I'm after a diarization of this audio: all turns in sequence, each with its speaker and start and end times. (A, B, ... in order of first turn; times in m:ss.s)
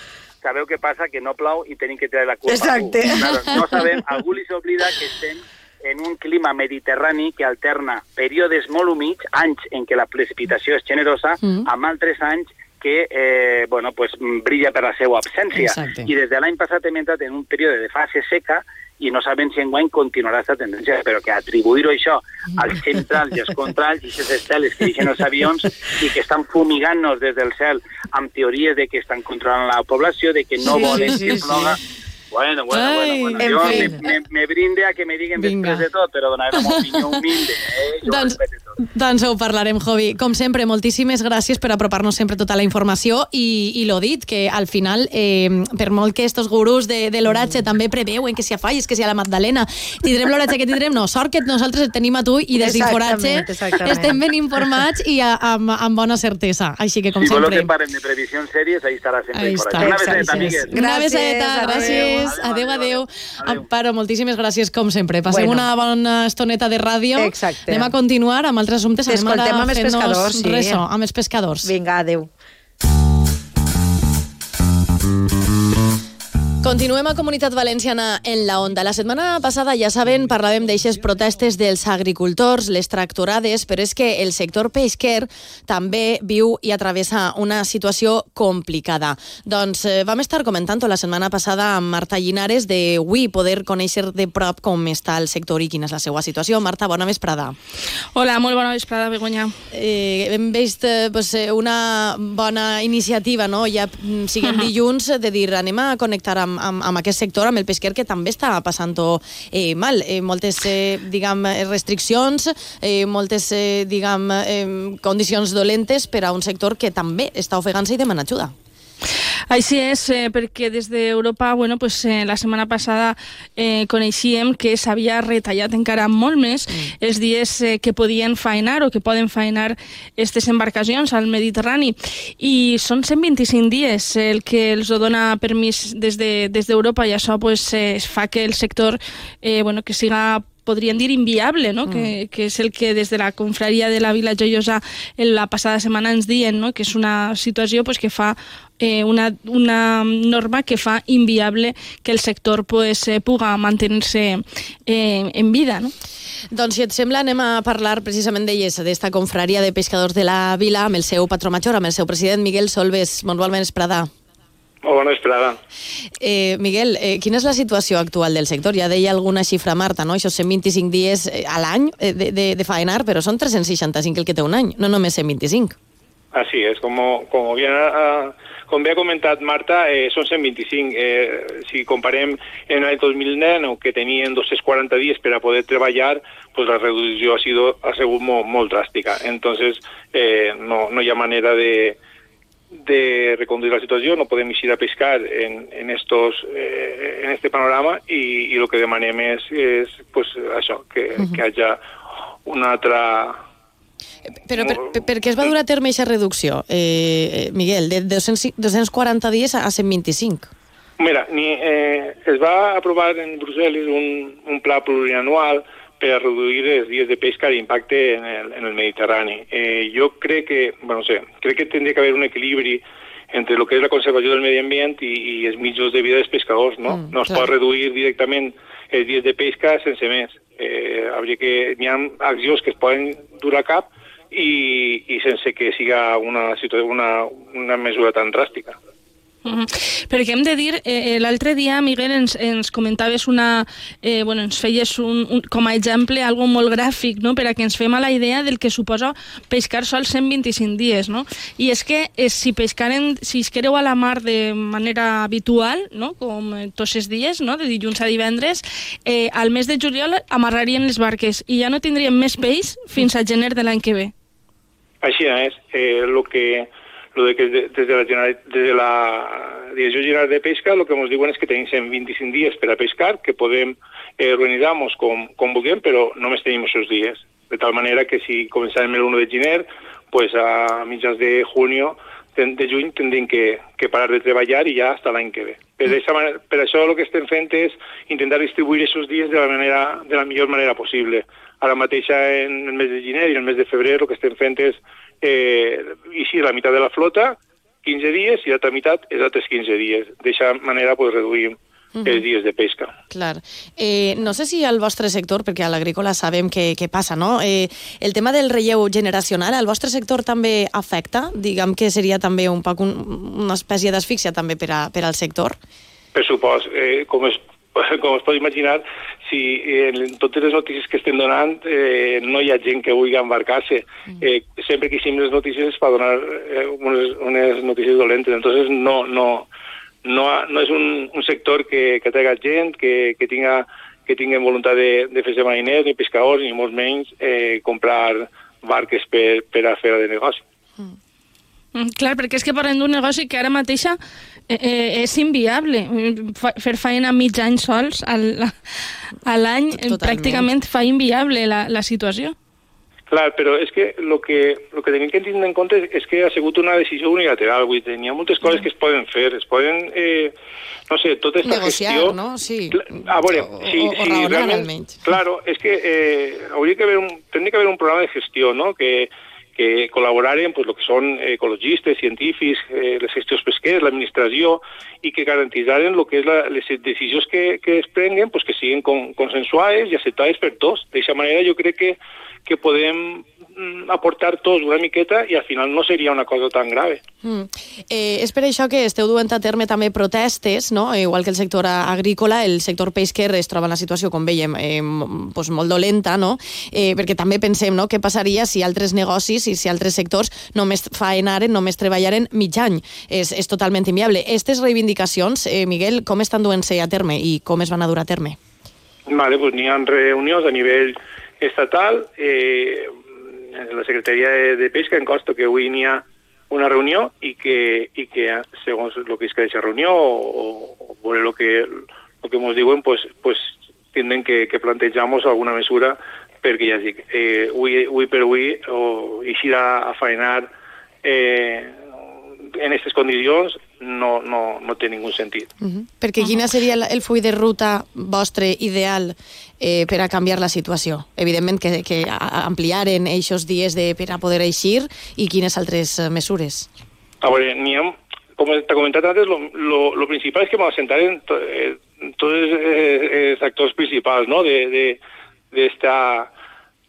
0:00.4-0:31.8 A
0:02.5-0:04.0 B
0:11.4-0:11.7 C
0:15.6-0:16.1 C
0:30.6-0:31.8 B
0:30.7-0:31.4 C
0:32.3-0:38.8 A
0:32.7-0:34.0 C
0:33.4-0:34.0 B
0:35.4-0:35.8 C
0:36.6-0:37.2 C
0:38.0-0:57.7 C
0:52.6-0:54.2 B
0:57.2-1:00.8 A
0:59.3-1:11.7 C
0:59.8-1:02.3 B
1:01.6-1:03.6 A
1:05.3-1:05.7 B
1:07.2-1:07.9 B
1:09.1-1:10.8 B
1:11.6-1:12.3 B
1:16.6-1:37.6 C
1:38.1-1:39.5 D
1:39.7-1:58.5 C
1:44.4-1:44.7 D
1:59.5-2:35.9 D
2:21.8-2:22.1 C
2:36.5-2:44.1 C
2:44.8-2:45.6 E
2:46.2-2:55.8 C
2:56.3-3:12.0 E
3:12.8-3:21.8 E
3:22.5-3:23.4 E
3:24.5-3:30.5 C
3:24.6-3:25.5 E
3:31.0-3:58.8 E
3:46.9-3:47.5 C
3:59.4-4:24.1 D
4:25.0-5:02.9 E
5:02.0-5:02.2 C
5:03.1-5:15.6 C
5:16.1-5:29.5 E
5:30.0-5:40.4 E
5:41.8-5:44.0 D
5:44.5-5:48.6 D
5:49.3-5:52.4 D
5:49.7-5:50.5 C
5:53.1-6:00.3 E
6:00.9-6:02.2 E
6:01.4-6:05.0 C
6:02.7-6:27.0 E
6:27.2-6:48.4 C
6:49.1-6:52.9 E
6:53.5-7:10.5 E
7:11.0-7:11.8 E
7:12.5-7:15.5 E
7:15.6-7:26.7 C
7:27.2-7:35.0 E
7:35.5-7:36.3 E